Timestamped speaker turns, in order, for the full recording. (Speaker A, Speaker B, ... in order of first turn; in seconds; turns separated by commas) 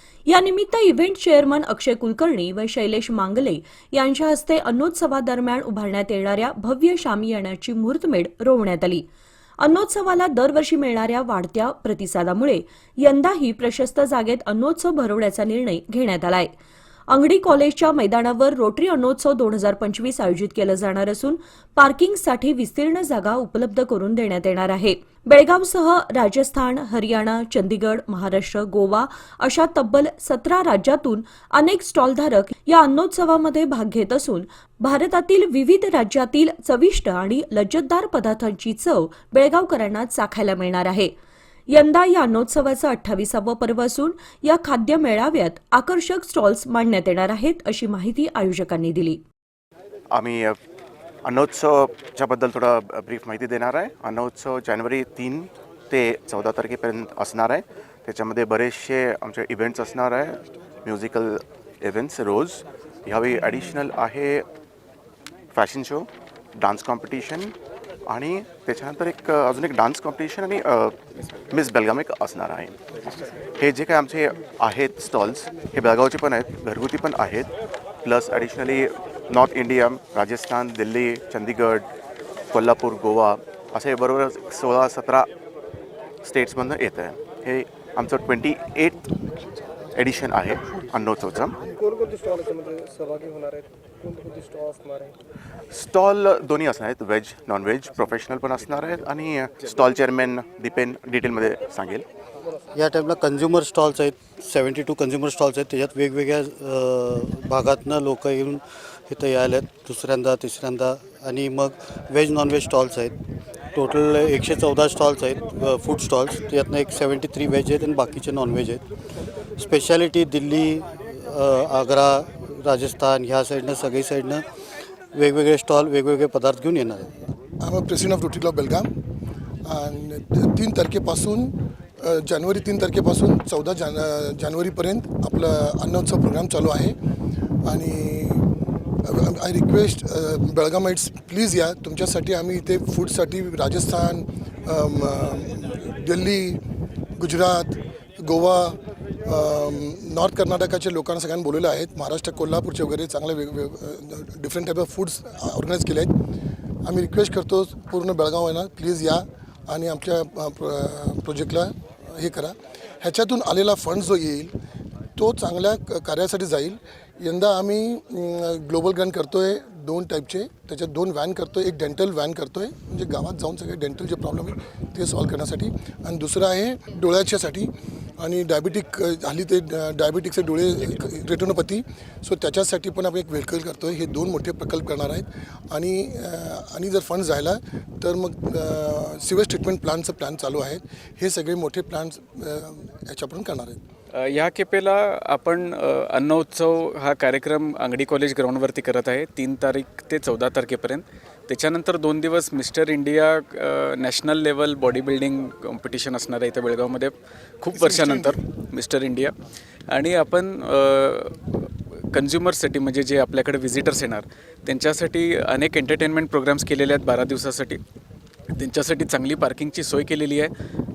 Speaker A: 0.3-9.1, Speaker A: 9.6-16.5, Speaker A: 17.1-41.1, Speaker A: 41.7-49.2, Speaker B: 50.1-50.6, Speaker B: 51.2-64.5, Speaker B: 65.5-67.5, Speaker B: 68.1-70.9, Speaker B: 71.5-72.8, Speaker B: 73.6-77.5, Speaker B: 78.0-81.9, Speaker B: 82.5-85.3, Speaker B: 86.2-89.1, Speaker B: 89.9-91.6, Speaker C: 91.9-95.1, Speaker B: 95.7-102.0, Speaker D: 102.7-113.2, Speaker D: 113.8-118.8, Speaker D: 119.6-124.4, Speaker D: 125.1-127.1, Speaker E: 127.6-128.9, Speaker E: 129.7-136.9, Speaker E: 137.7-138.5, Speaker E: 139.0-146.6, Speaker E: 147.2-156.1, Speaker E: 156.8-164.5, Speaker E: 165.2-193.8, Speaker F: 194.1-209.3, Speaker E: 207.8-208.4, Speaker F: 209.9-217.8, Speaker F: 218.5-220.5